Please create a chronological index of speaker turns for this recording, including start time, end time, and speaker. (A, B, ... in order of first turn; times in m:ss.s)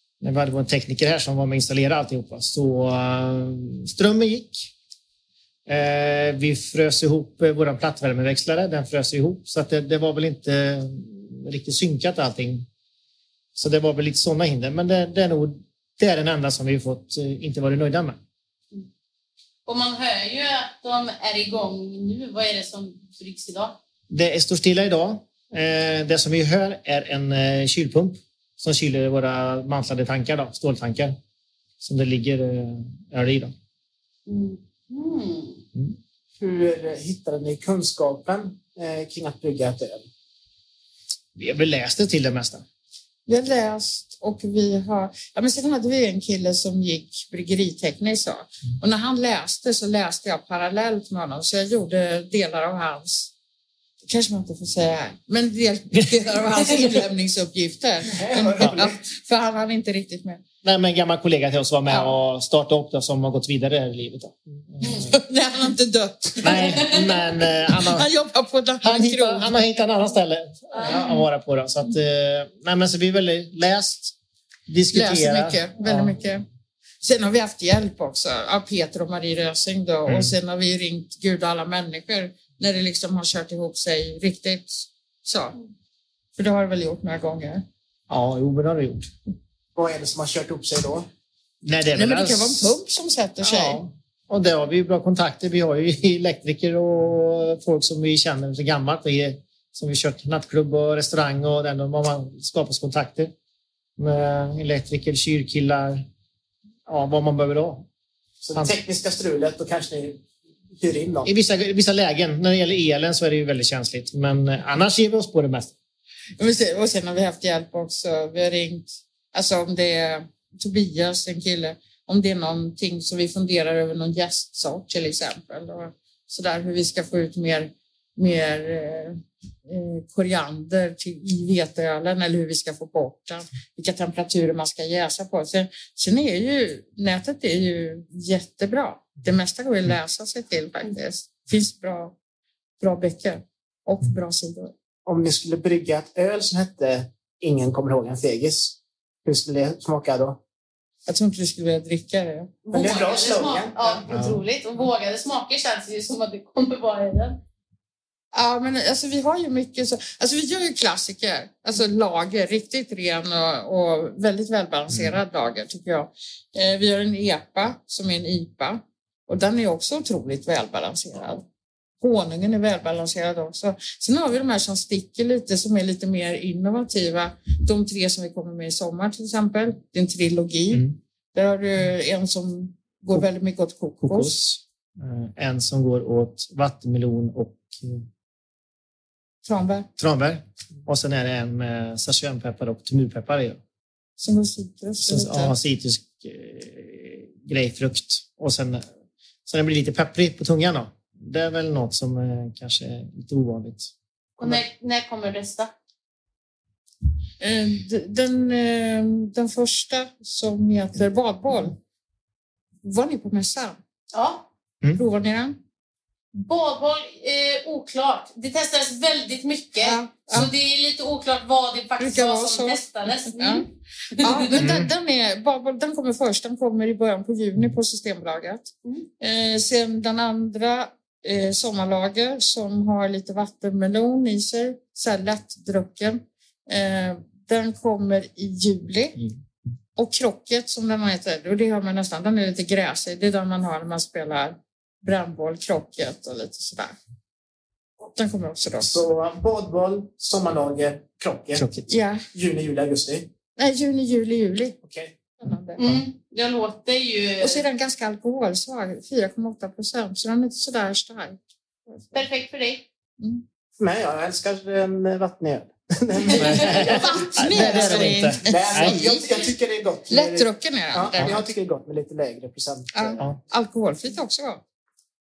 0:00.2-0:04.7 A
0:05.7-0:12.7 A
0:13.6-0:18.2 A
0:19.7-0:23.8 B
0:24.1-0:31.2 A
0:31.8-0:33.5 A
0:34.3-0:35.6 B
0:36.4-0:40.1 C
0:41.4-0:42.6 A
0:43.3-0:53.3 D
0:54.0-1:00.4 D
0:58.1-0:59.0 C
1:00.6-1:05.2 A
1:01.9-1:02.2 D
1:04.9-1:09.5 D
1:06.4-1:08.1 A
1:08.8-1:14.2 A
1:10.8-1:11.2 D
1:14.7-1:16.2 A
1:14.9-1:16.4 D
1:17.0-1:25.6 D
1:20.1-1:20.3 A
1:26.4-1:27.6 D
1:28.1-1:29.1 A
1:29.8-1:31.1 C
1:31.6-1:32.8 A
1:32.0-1:33.8 D
1:33.4-1:43.3 A
1:44.0-1:46.1 A
1:46.9-1:47.9 A
1:48.4-1:51.3 C
1:51.2-1:55.7 A
1:56.4-2:22.2 D
2:22.8-2:24.7 D
2:25.1-2:30.4 C
2:31.1-2:32.6 D
2:32.6-2:37.4 B
2:32.7-2:34.0 C
2:34.1-2:34.4 A
2:38.3-2:51.4 D
2:44.9-2:45.2 A
2:52.0-3:00.8 D
3:00.7-3:01.0 A
3:01.3-3:04.4 D
3:04.0-3:08.1 A
3:09.4-3:09.9 D
3:10.0-3:13.6 A
3:14.2-3:15.6 D
3:15.0-3:18.8 A
3:19.5-3:24.6 A
3:24.4-3:25.7 B
3:27.4-3:31.8 D
3:32.8-3:33.8 D
3:34.1-3:34.5 B
3:35.0-3:35.6 D
3:36.3-3:44.6 B
3:39.8-3:40.5 D
3:42.0-3:43.7 D
3:44.2-3:59.2 D
3:44.5-3:44.9 A
3:59.2-3:59.4 A
4:00.0-4:07.0 D
4:08.1-4:08.9 D
4:08.8-4:11.7 C
4:11.6-4:11.9 A
4:11.9-4:12.2 D
4:12.3-4:13.3 C
4:13.6-4:14.8 D
4:14.8-4:15.2 C
4:15.4-4:15.8 D
4:15.8-4:17.6 B
4:17.4-4:22.2 D
4:22.1-4:22.8 B
4:23.8-4:33.2 C
4:26.4-4:29.0 A
4:26.4-4:29.5 D
4:30.1-4:31.4 D
4:32.9-4:34.6 D